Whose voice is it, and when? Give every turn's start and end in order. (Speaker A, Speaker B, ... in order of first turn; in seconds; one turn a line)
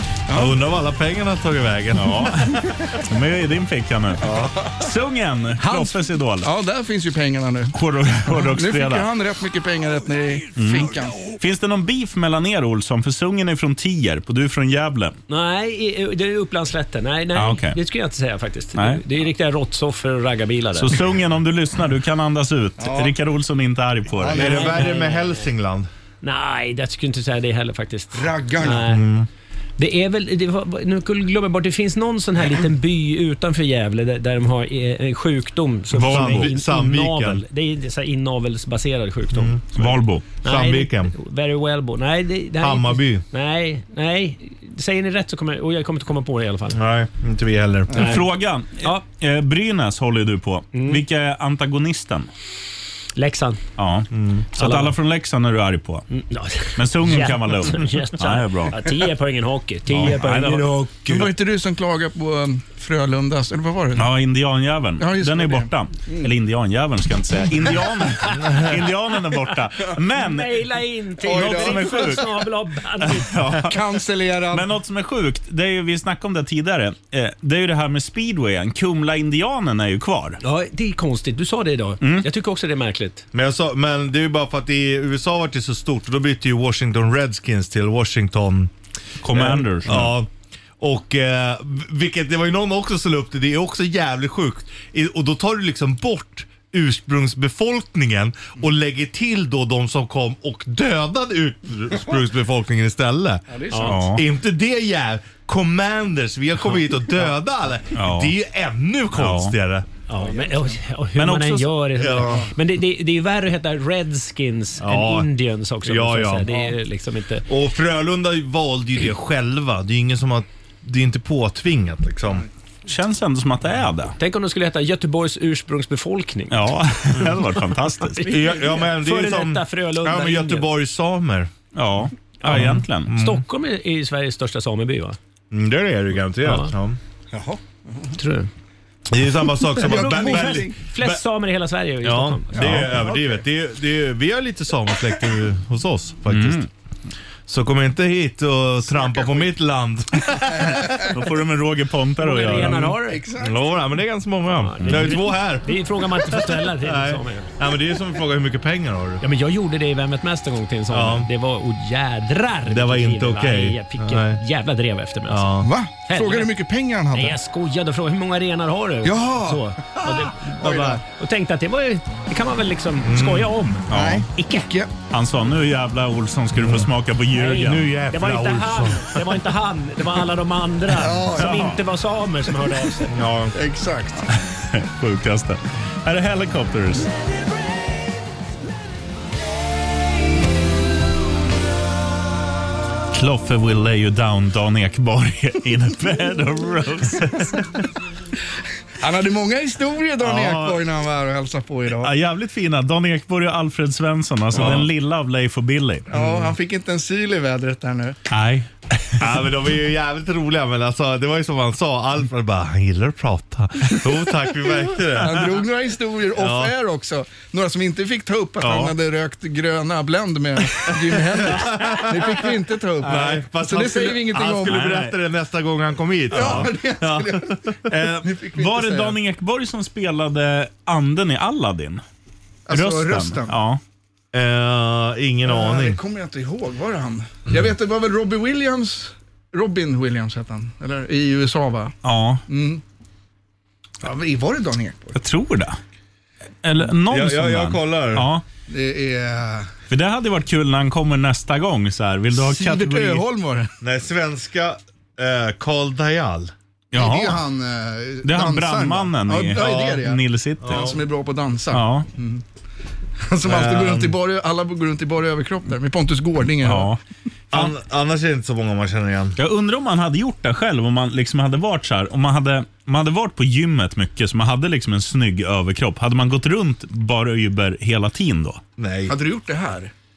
Speaker A: 0.3-0.6
Speaker B: 0.3-2.6
Speaker C: 1.9-6.5
Speaker A: 5.6-7.7
Speaker C: 7.7-9.1
Speaker A: 8.3-11.2
Speaker C: 10.6-15.2
Speaker D: 15.3-21.0
Speaker C: 17.4-17.8
Speaker C: 18.8-19.0
Speaker C: 20.8-24.6
Speaker A: 22.8-23.1
Speaker A: 24.2-24.9
Speaker D: 24.3-25.5
Speaker B: 24.3-25.9
Speaker D: 26.2-29.2
Speaker A: 28.1-28.9
Speaker B: 28.8-29.3
Speaker D: 29.8-39.9
Speaker C: 35.9-36.5
Speaker B: 36.0-37.4
Speaker B: 39.3-41.1
Speaker C: 39.8-40.2
Speaker D: 40.4-46.8
Speaker B: 42.6-43.2
Speaker B: 46.7-48.2
Speaker D: 48.0-48.2
Speaker C: 48.0-52.3
Speaker D: 50.7-51.0
Speaker D: 53.2-53.6
Speaker C: 53.8-56.1
Speaker B: 54.1-54.5
Speaker D: 54.6-55.0
Speaker D: 56.1-61.0
Speaker C: 56.8-58.8
Speaker B: 59.9-60.3
Speaker C: 60.1-61.2
Speaker A: 61.1-64.1
Speaker C: 64.0-70.6
Speaker A: 65.0-66.3
Speaker D: 68.2-68.7
Speaker D: 70.1-73.4
Speaker A: 71.2-72.2
Speaker C: 71.2-72.4
Speaker C: 73.0-74.0
Speaker A: 73.6-74.7
Speaker C: 74.5-80.4
Speaker D: 80.4-83.2
Speaker C: 82.0-82.3
Speaker B: 83.3-88.7
Speaker C: 89.2-90.1
Speaker B: 89.3-90.3
Speaker B: 90.8-109.9
Speaker A: 103.5-104.0
Speaker D: 103.7-104.1
Speaker C: 103.9-104.2
Speaker C: 108.0-108.3
Speaker C: 109.2-109.5
Speaker D: 110.1-117.5
Speaker A: 110.1-110.8
Speaker C: 111.2-111.7
Speaker B: 112.0-112.5
Speaker A: 112.2-112.5
Speaker B: 114.8-115.3
Speaker B: 115.8-116.5
Speaker A: 116.5-116.7
Speaker B: 117.5-122.5
Speaker C: 122.9-124.2
Speaker D: 124.2-126.7
Speaker C: 126.5-128.2
Speaker D: 128.2-130.7
Speaker B: 128.2-131.5
Speaker C: 131.8-133.1
Speaker D: 132.4-135.2
Speaker B: 132.5-133.4
Speaker B: 135.5-137.0
Speaker D: 136.4-136.7
Speaker A: 137.3-138.2
Speaker D: 138.2-138.5
Speaker B: 139.1-141.2
Speaker A: 139.8-140.8
Speaker D: 139.8-142.8
Speaker B: 142.0-146.6
Speaker A: 142.6-143.4
Speaker C: 146.3-146.7
Speaker B: 147.5-150.8
Speaker A: 148.9-149.5
Speaker A: 150.5-151.2
Speaker C: 150.9-152.9
Speaker D: 152.2-153.2
Speaker A: 152.9-153.8
Speaker B: 153.4-159.2
Speaker D: 154.6-157.5
Speaker C: 154.8-155.1
Speaker D: 159.2-165.5
Speaker B: 160.9-161.3
Speaker B: 162.7-164.4
Speaker B: 165.3-165.7
Speaker A: 165.6-167.4
Speaker D: 166.1-166.5
Speaker D: 167.1-174.7
Speaker A: 169.0-169.6
Speaker B: 170.5-171.0
Speaker A: 170.6-171.0
Speaker B: 173.0-173.6
Speaker C: 173.9-174.2
Speaker A: 173.9-174.9
Speaker C: 175.1-177.9
Speaker B: 176.6-176.9
Speaker D: 177.4-183.1
Speaker B: 177.4-179.2
Speaker A: 181.0-181.5
Speaker C: 181.4-181.8
Speaker B: 183.1-183.5
Speaker A: 183.5-184.3
Speaker C: 184.3-187.1
Speaker C: 193.1-197.8
Speaker A: 199.0-202.1
Speaker B: 200.2-200.8
Speaker C: 202.0-206.1
Speaker B: 204.5-204.9
Speaker A: 206.1-208.2
Speaker B: 206.1-206.5
Speaker C: 208.3-209.3
Speaker B: 209.2-215.5
Speaker A: 215.2-224.8
Speaker B: 216.4-216.7
Speaker C: 218.6-218.9
Speaker B: 221.2-222.4
Speaker B: 223.0-228.2
Speaker C: 224.7-225.2
Speaker A: 226.3-229.2
Speaker C: 226.4-226.7
Speaker C: 228.6-232.0
Speaker A: 232.7-233.5
Speaker C: 232.7-233.8
Speaker B: 234.3-236.0
Speaker A: 235.5-241.9
Speaker C: 242.0-242.4
Speaker A: 242.5-242.8
Speaker A: 244.0-245.2
Speaker C: 245.2-245.8
Speaker C: 246.6-248.4
Speaker B: 247.1-248.3
Speaker A: 248.7-249.7
Speaker C: 249.9-253.2
Speaker A: 252.3-253.7
Speaker B: 253.8-256.5
Speaker C: 256.9-257.4
Speaker A: 257.0-262.4
Speaker C: 258.2-260.9
Speaker B: 259.6-260.0
Speaker B: 260.6-261.0
Speaker C: 261.7-262.1
Speaker A: 263.2-267.0
Speaker B: 263.5-264.1
Speaker C: 266.6-267.0
Speaker B: 267.5-269.4
Speaker C: 269.4-278.6
Speaker B: 278.8-279.1
Speaker A: 279.1-279.9